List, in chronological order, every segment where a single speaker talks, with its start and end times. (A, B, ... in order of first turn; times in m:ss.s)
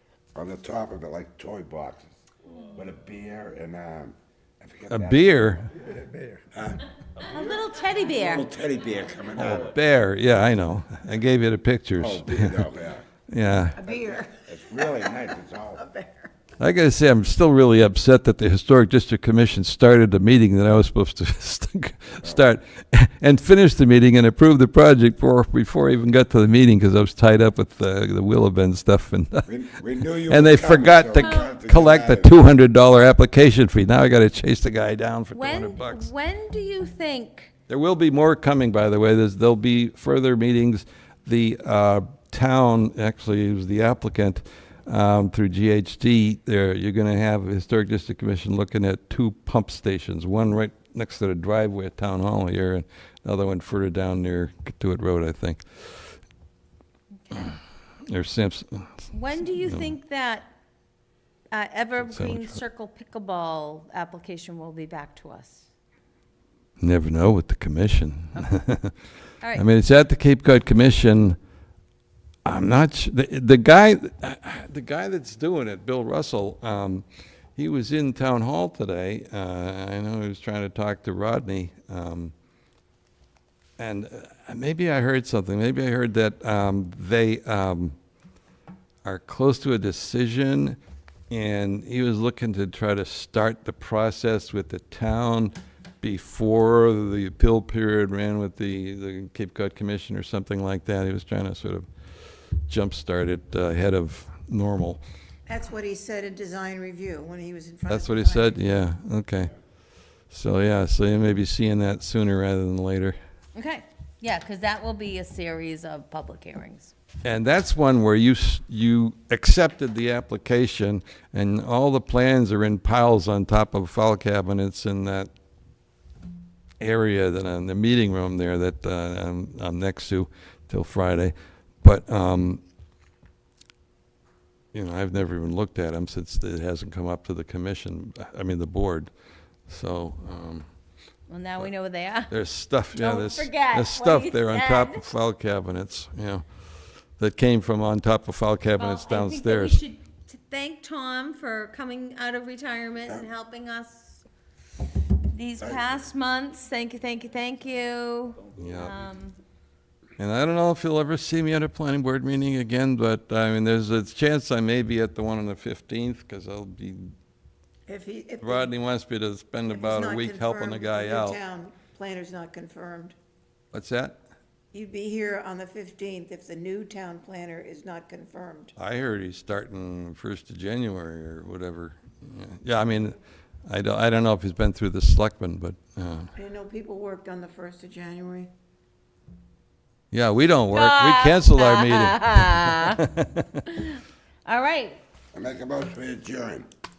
0:00.3-0:02.2 A
0:02.7-0:06.8 A
0:04.9-0:05.7 B
0:07.3-0:08.5 C
0:08.1-0:09.7 A
0:09.4-0:12.7 B
0:12.0-0:13.0 A
0:13.3-0:13.8 B
0:13.7-0:16.3 D
0:13.9-0:15.8 A
0:16.6-0:29.5 B
0:29.5-0:32.5 A
0:30.3-0:36.1 B
0:31.2-0:31.6 C
0:35.3-0:37.5 C
0:37.7-0:55.6 B
0:57.2-0:57.6 C
0:58.1-0:59.0 B
0:59.1-1:00.5 C
0:59.6-0:59.9 B
1:01.5-1:05.7 C
1:02.0-1:02.6 B
1:06.8-1:08.9 B
1:09.6-1:11.4 B
1:12.4-1:17.0 B
1:17.6-1:22.3 B
1:23.8-1:28.0 B
1:29.0-1:30.8 B
1:31.3-1:41.9 B
1:42.7-1:45.0 B
1:45.5-1:48.7 D
1:47.9-1:49.5 B
1:50.3-1:53.2 B
1:53.5-1:56.9 C
1:57.2-2:05.3 B
2:06.8-2:12.6 B
2:14.7-2:19.1 B
2:19.7-2:20.7 B
2:21.3-2:22.3 C
2:22.3-2:26.4 B
2:23.0-2:25.1 C
2:27.2-2:29.8 B
2:28.8-2:34.2 C
2:35.2-2:39.4 C
2:38.6-2:39.0 B
2:40.2-2:47.1 B
2:47.9-2:48.7 D
2:48.4-2:51.4 B
2:49.7-2:53.2 D
2:53.7-2:54.2 B
2:54.7-2:58.7 D
2:58.8-3:06.3 B
3:06.4-3:08.5 D
3:10.1-3:13.5 B
3:10.7-3:13.0 C
3:13.6-3:15.0 C
3:15.3-3:16.7 A